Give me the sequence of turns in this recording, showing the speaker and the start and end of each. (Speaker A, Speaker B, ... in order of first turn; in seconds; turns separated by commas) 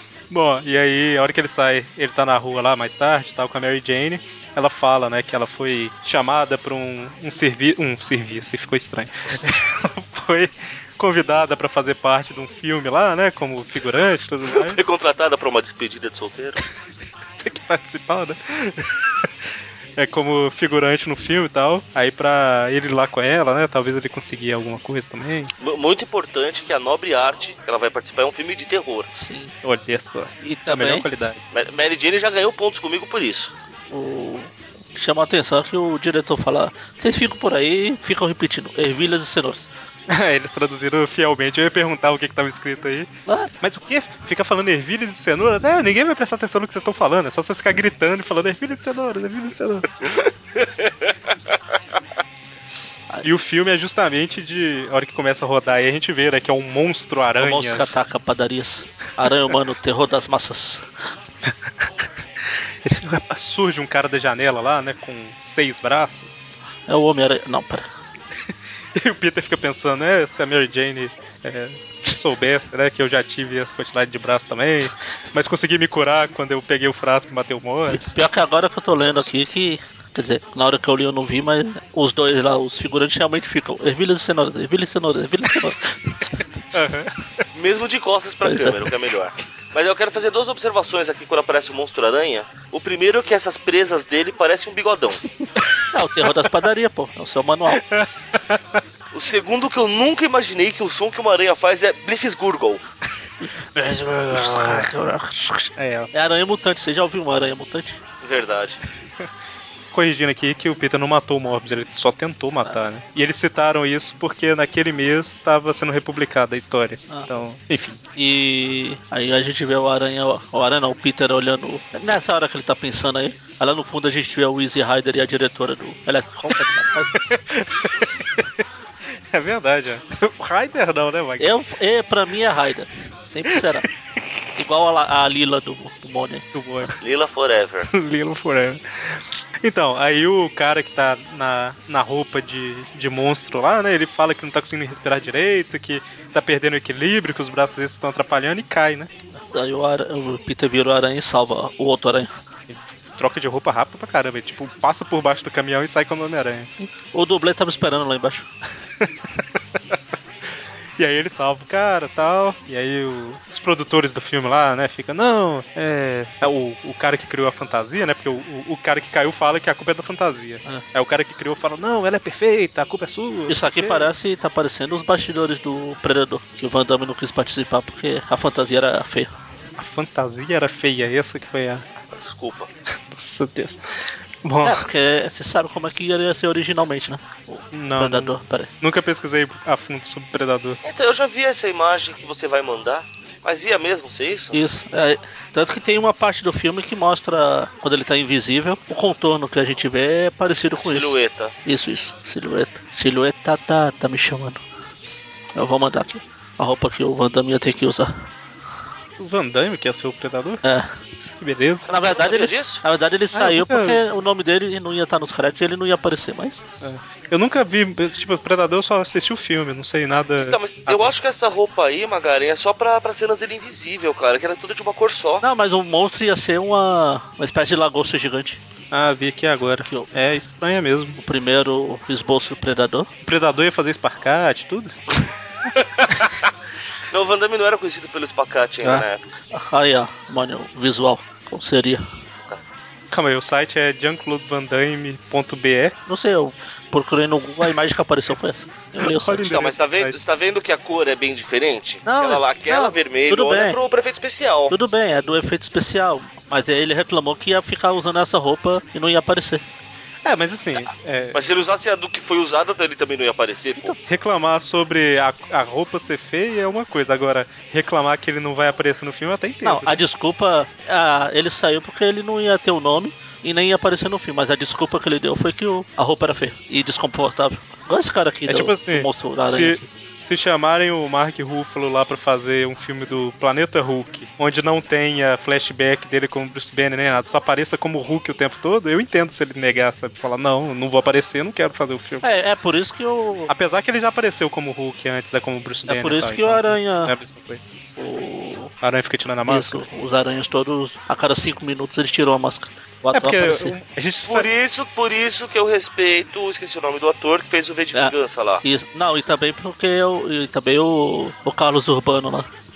Speaker A: 0.3-14.8, Speaker B: 14.5-16.6, Speaker A: 17.3-19.3, Speaker A: 20.0-25.5, Speaker B: 25.6-29.1, Speaker C: 29.1-29.5, Speaker A: 29.6-31.4, Speaker C: 30.4-31.1, Speaker B: 31.5-33.5, Speaker C: 33.9-39.7, Speaker A: 40.1-43.1, Speaker A: 43.6-50.1, Speaker B: 50.6-51.1, Speaker A: 53.2-57.9, Speaker C: 57.4-60.9, Speaker A: 61.5-61.9, Speaker A: 62.8-66.5, Speaker C: 66.9-67.9, Speaker A: 69.0-78.1, Speaker C: 77.9-86.4, Speaker A: 86.7-87.4, Speaker B: 87.5-95.2, Speaker C: 88.4-88.9, Speaker C: 95.9-97.8, Speaker A: 97.7-98.8, Speaker B: 99.1-102.8, Speaker C: 103.8-108.0, Speaker A: 104.3-104.9, Speaker A: 105.8-106.1, Speaker B: 108.2-108.8, Speaker A: 109.9-118.0, Speaker C: 118.2-127.1, Speaker A: 127.1-128.6, Speaker A: 129.3-131.5, Speaker C: 131.4-133.9, Speaker C: 134.6-136.5, Speaker A: 136.5-136.9, Speaker B: 137.0-137.9, Speaker A: 137.9-149.1, Speaker C: 149.5-152.3, Speaker A: 152.7-156.7, Speaker C: 156.8-158.5, Speaker A: 159.0-160.0, Speaker A: 161.0-174.1, Speaker C: 173.5-179.3, Speaker A: 179.8-181.9, Speaker B: 182.1-182.7, Speaker A: 183.1-183.8, Speaker A: 184.4-184.8, Speaker C: 184.6-188.7, Speaker A: 187.7-190.8, Speaker B: 190.8-194.6, Speaker C: 194.5-204.6, Speaker B: 200.5-201.5, Speaker C: 205.6-208.2, Speaker A: 209.2-210.6, Speaker C: 210.6-210.9, Speaker A: 211.4-211.8, Speaker C: 211.9-216.6, Speaker B: 211.9-212.8, Speaker A: 213.3-214.0, Speaker A: 216.8-221.1, Speaker B: 220.4-225.4, Speaker C: 225.4-228.6, Speaker A: 228.9-231.2, Speaker C: 229.8-230.1, Speaker C: 231.2-233.1, Speaker A: 233.2-234.9, Speaker B: 237.1-239.2, Speaker C: 238.8-242.1, Speaker B: 242.4-242.7, Speaker A: 243.1-245.9, Speaker C: 246.1-249.5, Speaker A: 249.0-250.2, Speaker B: 249.4-254.7, Speaker C: 252.1-253.8, Speaker C: 254.7-259.6, Speaker A: 260.2-261.4, Speaker B: 261.3-263.9, Speaker A: 264.1-270.0, Speaker C: 269.6-279.9, Speaker A: 278.5-292.2, Speaker C: 292.2-293.5, Speaker A: 293.5-297.8, Speaker C: 295.9-297.1, Speaker C: 298.0-298.7, Speaker A: 298.8-299.9, Speaker C: 299.5-303.8, Speaker A: 303.1-304.5, Speaker B: 304.2-308.6, Speaker C: 307.9-312.5